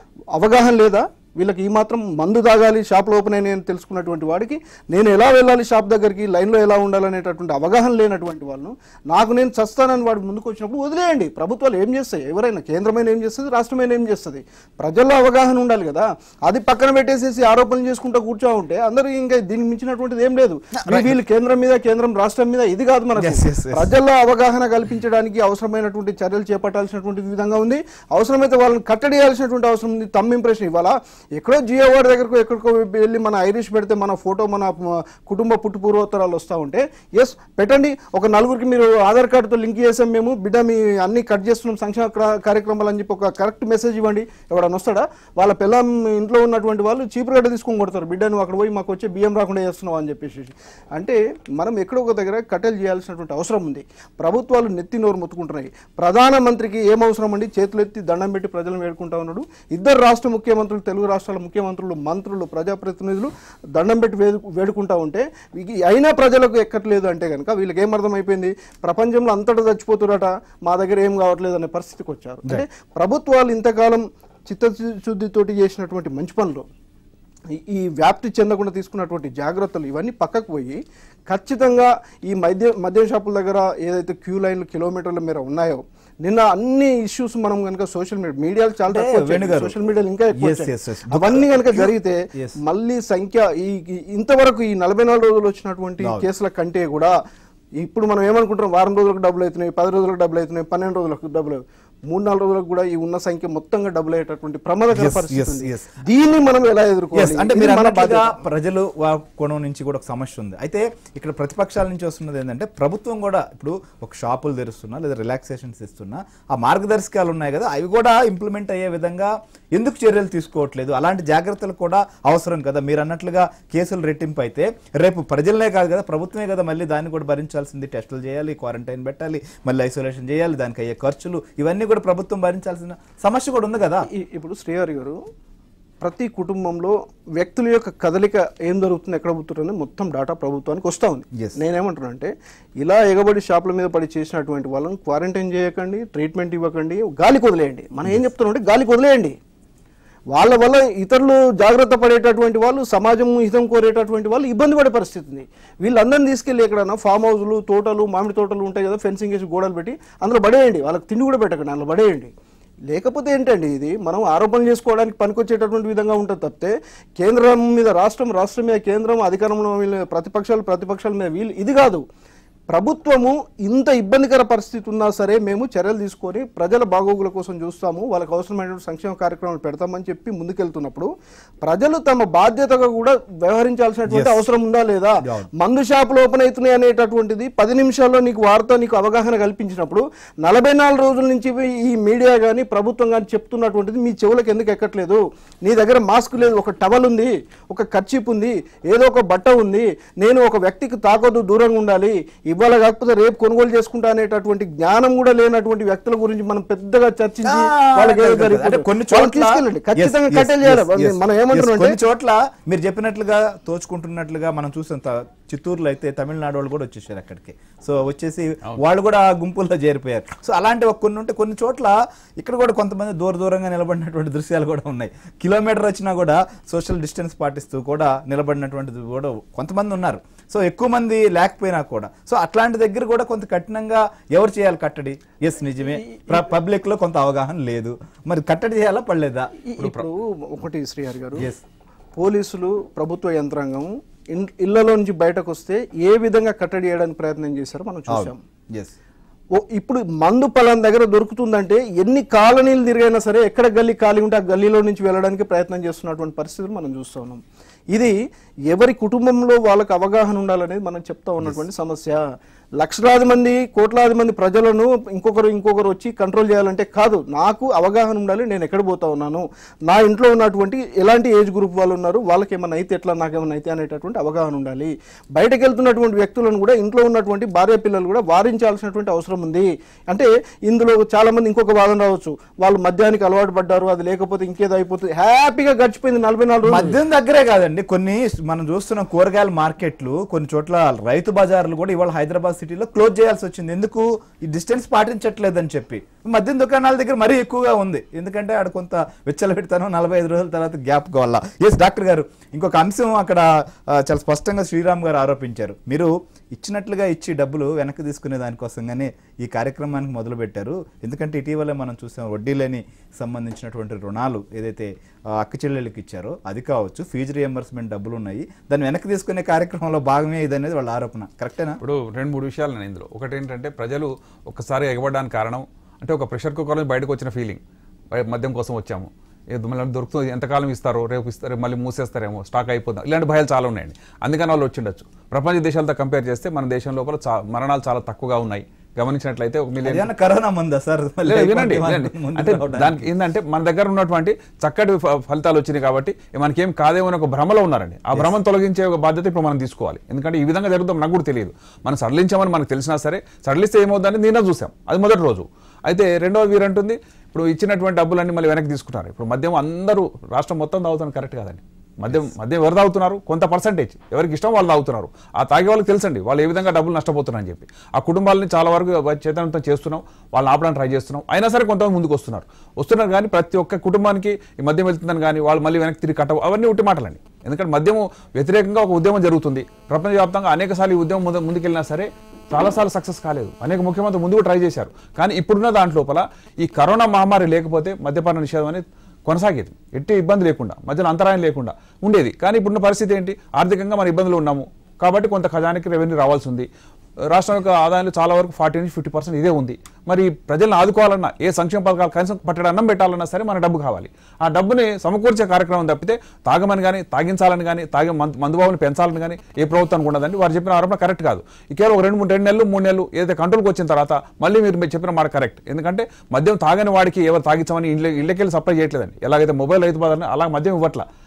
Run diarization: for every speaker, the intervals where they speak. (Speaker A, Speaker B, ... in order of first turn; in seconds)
Speaker A: 0.3-76.7, 77.5-97.1, 97.8-108.4, 134.1-135.2, 136.0-149.4, 150.3-162.3, 162.9-172.0, 172.7-181.1, 181.6-212.0, 236.1-236.3, 239.7-241.5, 242.2-248.4, 249.6-258.2, 258.7-262.2, 262.8-287.0
Speaker B: 20.8-21.2, 23.2-23.9, 88.9-89.8, 90.3-92.6, 96.0-96.2, 104.9-106.0, 107.1-134.1, 184.1-184.4, 185.2-185.5, 207.4-239.7, 241.4-241.6, 248.1-248.9, 286.6-321.8, 339.8-343.1
Speaker C: 321.8-327.6, 328.1-340.1, 341.2-396.7, 397.3-421.1